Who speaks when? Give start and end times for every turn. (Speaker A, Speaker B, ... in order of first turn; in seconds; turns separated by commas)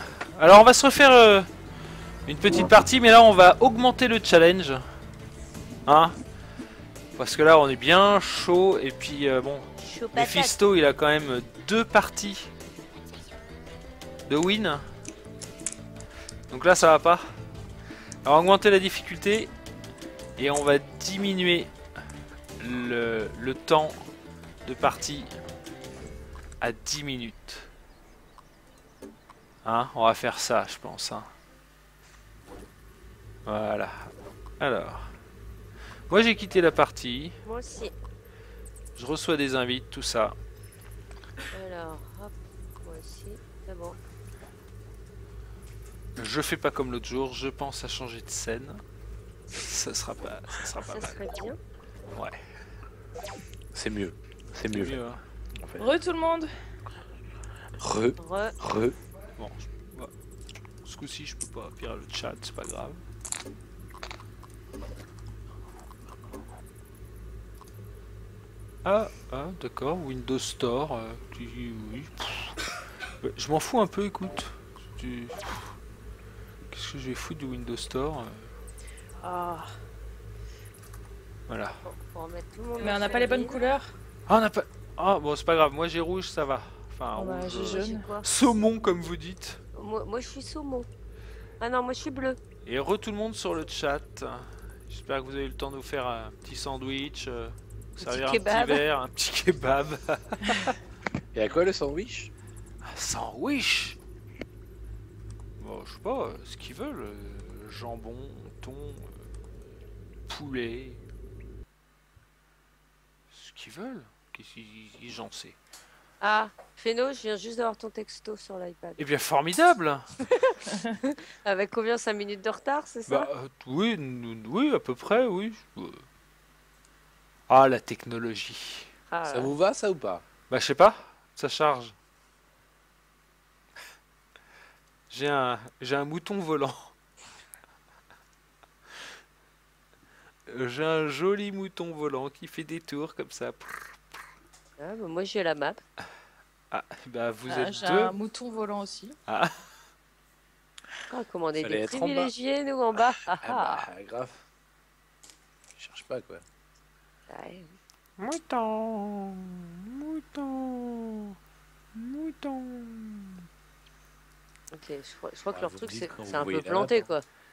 Speaker A: 0.3-1.5, Speaker A: 2.3-4.8, Speaker A: 5.8-6.2, Speaker A: 7.2-12.5, Speaker B: 9.8-10.6, Speaker A: 14.3-14.8, Speaker A: 16.5-17.3, Speaker A: 18.2-19.5, Speaker A: 20.4-21.7, Speaker A: 22.6-24.1, Speaker A: 24.6-25.3, Speaker A: 26.6-27.7, Speaker A: 29.6-31.3, Speaker A: 33.5-35.1, Speaker A: 36.1-37.3, Speaker B: 37.4-37.9, Speaker A: 39.0-40.4, Speaker B: 41.5-44.0, Speaker A: 46.2-48.8, Speaker A: 49.5-51.2, Speaker B: 50.8-51.6, Speaker C: 53.7-55.0, Speaker A: 54.7-55.2, Speaker C: 55.6-55.9, Speaker D: 55.8-56.5, Speaker C: 57.8-59.0, Speaker B: 58.2-58.5, Speaker A: 59.4-60.1, Speaker A: 60.8-63.0, Speaker A: 68.8-72.6, Speaker A: 73.2-75.8, Speaker A: 76.7-78.5, Speaker D: 79.2-79.7, Speaker A: 81.5-81.8, Speaker B: 81.8-83.7, Speaker D: 82.8-83.9, Speaker A: 84.3-89.6, Speaker D: 87.2-88.1, Speaker B: 87.5-88.3, Speaker B: 89.7-90.9, Speaker B: 91.6-92.4, Speaker A: 92.6-100.8, Speaker B: 98.0-98.8, Speaker C: 101.3-102.3, Speaker A: 102.8-104.0, Speaker A: 105.6-109.2, Speaker A: 110.3-111.0, Speaker A: 113.3-115.6, Speaker B: 116.2-119.0, Speaker A: 119.0-120.2, Speaker B: 120.4-123.3, Speaker A: 123.1-126.0, Speaker A: 127.5-128.9, Speaker B: 129.1-129.5, Speaker C: 129.2-130.2, Speaker A: 130.5-131.9, Speaker A: 135.1-136.9, Speaker A: 140.5-144.0, Speaker B: 144.8-145.8, Speaker A: 146.7-148.1, Speaker D: 147.5-149.2, Speaker A: 149.3-149.6, Speaker B: 151.1-153.9, Speaker C: 151.6-152.3, Speaker C: 153.3-154.4, Speaker C: 155.8-156.4, Speaker B: 157.3-157.8, Speaker A: 158.2-161.3, Speaker A: 161.9-163.4, Speaker B: 164.7-167.2, Speaker C: 165.5-167.1